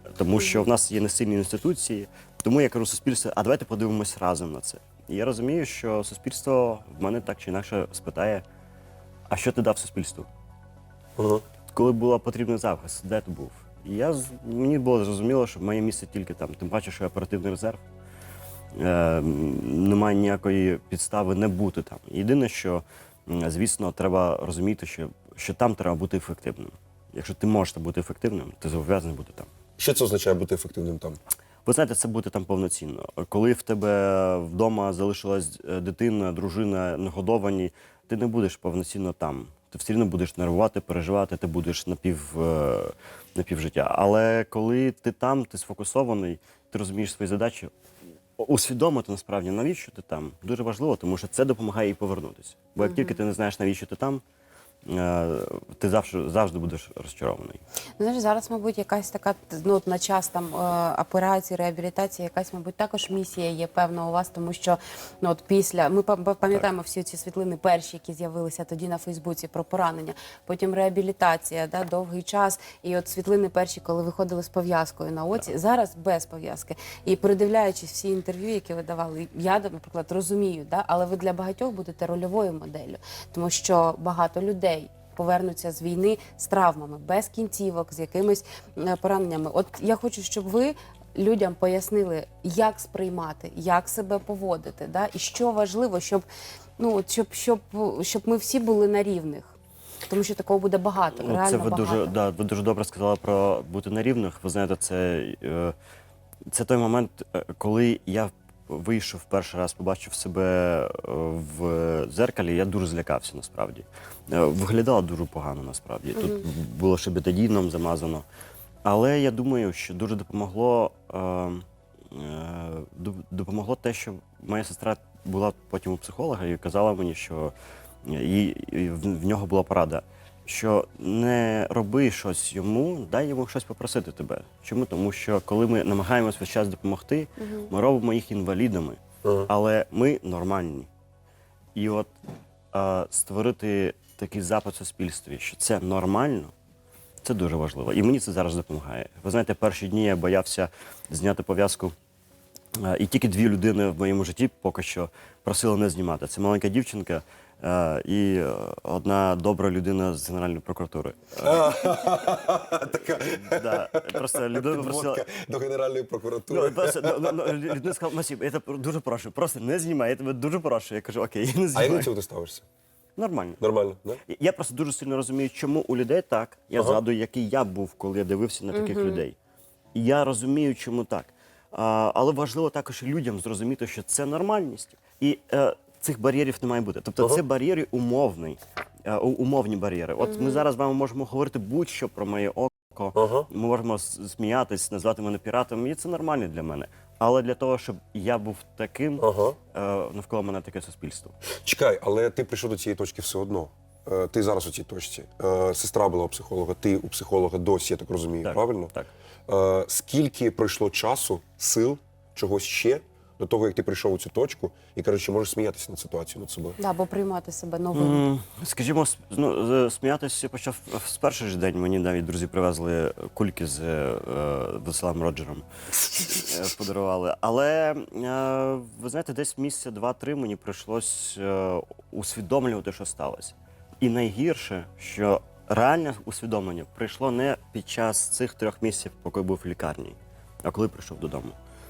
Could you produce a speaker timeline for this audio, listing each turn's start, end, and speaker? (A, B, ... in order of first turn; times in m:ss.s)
0:00.1-0:08.4 A
0:00.4-0:00.7 B
0:09.3-0:10.3 A
0:11.2-0:11.4 C
0:11.7-0:17.8 A
0:18.8-0:29.5 A
0:29.8-0:31.2 C
0:31.6-0:47.7 A
0:48.4-0:54.2 A
0:52.8-0:53.2 B
0:54.9-0:57.6 A
0:58.0-1:36.2 B
1:36.8-1:39.5 B
1:40.0-1:42.1 B
1:41.1-1:45.7 A
1:46.5-1:58.2 A
1:56.2-1:56.4 B
1:58.8-2:07.5 A
2:08.0-2:20.9 A
2:17.4-2:17.7 B
2:19.2-2:19.5 C
2:21.8-2:22.1 A
2:22.7-2:26.5 A
2:27.2-2:31.9 A
2:32.8-2:42.3 A
2:41.4-2:47.5 C
2:42.9-2:45.3 A
2:46.5-2:52.1 A
2:51.7-2:52.6 C
2:53.2-2:53.6 A
2:53.6-2:54.2 C
2:54.3-2:59.4 A
2:56.7-2:57.0 C
2:58.7-2:59.2 B
2:59.9-3:21.3 A
3:10.2-3:10.6 B
3:13.1-3:13.5 C
3:19.2-3:19.6 C
3:21.6-3:28.9 C
3:28.4-3:29.1 A
3:29.5-3:36.8 C
3:36.8-3:38.2 B
3:37.9-3:45.6 A
3:46.3-4:01.6 A